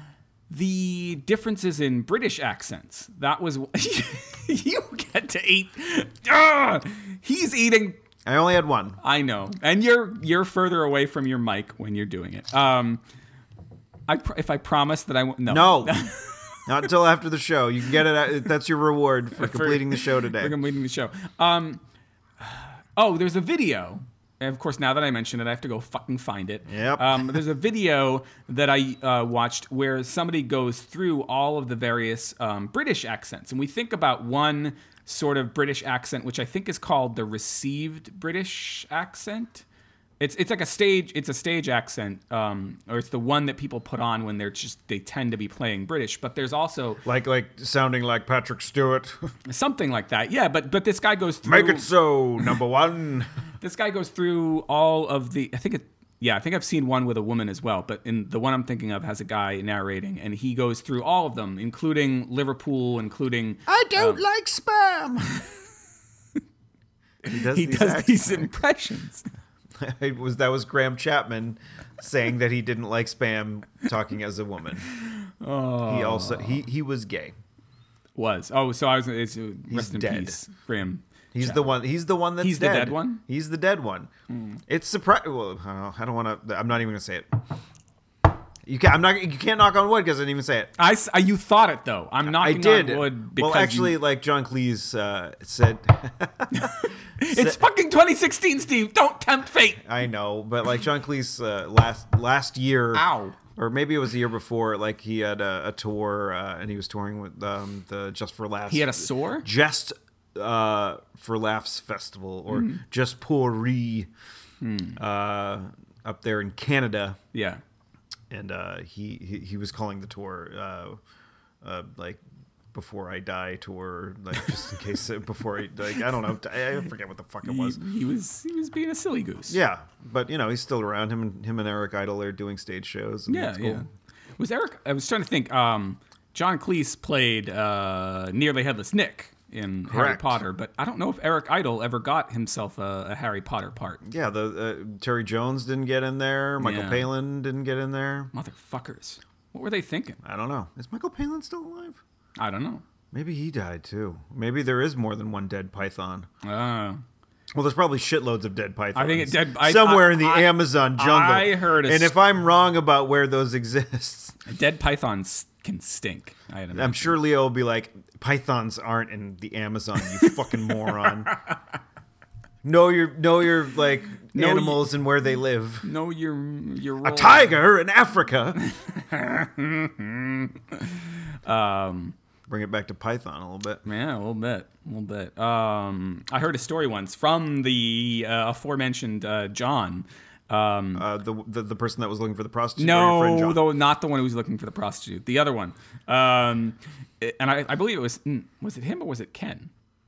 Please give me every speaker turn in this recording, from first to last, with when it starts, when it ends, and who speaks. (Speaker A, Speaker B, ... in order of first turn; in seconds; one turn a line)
Speaker A: 0.5-8.0
Speaker B: 8.2-9.0
Speaker A: 9.0-13.0
Speaker A: 14.1-16.7
Speaker B: 15.5-16.0
Speaker B: 16.6-20.5
Speaker A: 19.4-21.8
Speaker A: 22.4-39.6
Speaker B: 26.7-27.2
Speaker A: 40.2-47.0
Speaker B: 47.0-49.3
Speaker A: 49.5-51.9
Speaker B: 51.4-53.3
Speaker A: 53.6-64.2
Speaker B: 63.7-65.3
Speaker B: 67.2-68.5
Speaker A: 67.2-69.3
Speaker B: 69.8-74.9
Speaker A: 74.9-76.6
Speaker B: 75.8-77.3
Speaker A: 78.1-81.7
Speaker B: 79.7-80.4
Speaker B: 81.3-84.1
Speaker A: 82.4-83.2
Speaker A: 84.3-84.6
Speaker B: 84.7-87.4
Speaker B: 88.7-90.7
Speaker A: 90.8-94.0
Speaker B: 92.2-97.6
Speaker A: 96.5-99.8
Speaker B: 99.8-114.1
Speaker A: 102.9-103.4
Speaker A: 108.7-109.5
Speaker A: 112.5-112.8
Speaker A: 114.6-115.0
Speaker B: 115.0-117.2
Speaker A: 117.3-117.6
Speaker B: 118.3-121.0
Speaker B: 121.6-122.2
Speaker B: 122.7-127.8
Speaker A: 127.4-129.6
Speaker B: 129.5-133.8
Speaker A: 133.3-144.0
Speaker B: 139.9-140.4
Speaker B: 144.0-148.3
Speaker A: 146.6-147.1
Speaker A: 148.3-150.2
Speaker B: 150.2-152.0
Speaker A: 152.4-152.8
Speaker B: 153.1-156.3
Speaker A: 156.4-157.0
Speaker B: 157.5-164.4
Speaker A: 158.9-162.2
Speaker A: 164.4-167.2
Speaker B: 166.7-171.3
Speaker A: 170.2-171.4
Speaker B: 172.6-175.9
Speaker A: 174.3-174.9
Speaker A: 175.8-177.5
Speaker B: 177.0-178.6
Speaker A: 178.6-182.2
Speaker B: 182.5-183.8
Speaker A: 183.8-191.0
Speaker B: 190.9-193.6
Speaker A: 192.8-199.7